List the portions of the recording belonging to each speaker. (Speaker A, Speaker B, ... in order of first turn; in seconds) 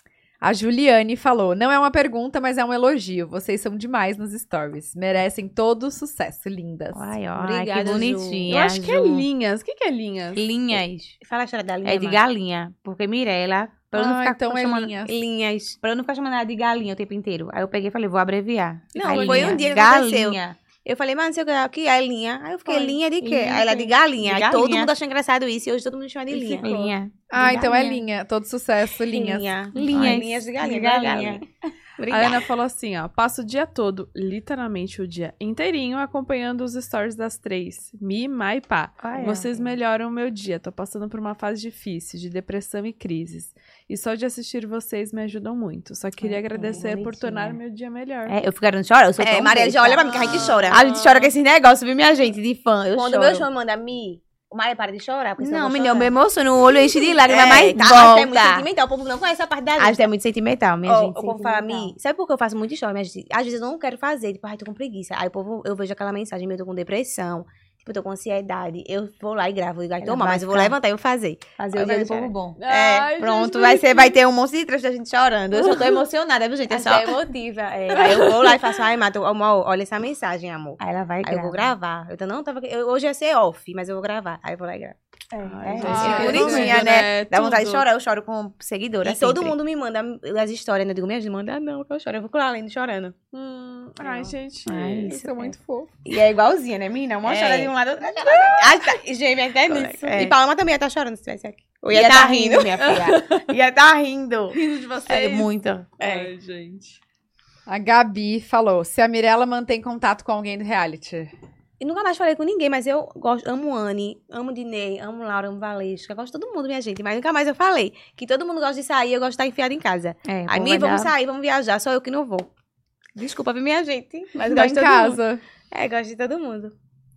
Speaker A: 0.4-7.0, 13.9-15.1, 27.3-29.5, 85.8-86.9, 95.1-95.9, 107.7-111.3, 124.4-125.4
Speaker B: 6.9-9.2, 10.3-11.2, 11.8-14.9, 15.8-20.6, 22.8-24.9, 26.5-28.0, 29.7-31.4, 39.0-39.7, 46.2-47.6, 48.3-50.1, 50.7-53.5, 55.4-58.7, 59.8-61.9, 70.0-70.8, 71.6-77.3, 77.9-78.3, 80.8-81.7, 85.3-89.5, 94.7-95.5, 96.0-99.0, 99.7-100.4, 101.9-106.3, 120.3-121.1
Speaker C: 7.4-8.5, 11.2-12.2, 15.1-15.8, 18.9-26.7, 29.1-31.4, 32.0-32.4, 49.2-50.9, 53.0-56.1, 56.7-60.1, 60.9-73.0, 75.5-76.0, 76.7-86.8, 89.0-93.2, 94.0-94.3, 97.2-103.1, 111.8-122.5, 123.2-125.2, 125.7-126.7
Speaker D: 8.5-10.5, 19.1-19.6, 26.3-26.9, 32.1-48.4, 50.0-51.3, 72.6-74.2, 77.9-78.6, 85.5-87.9, 93.3-95.6, 102.8-103.5, 104.5-107.0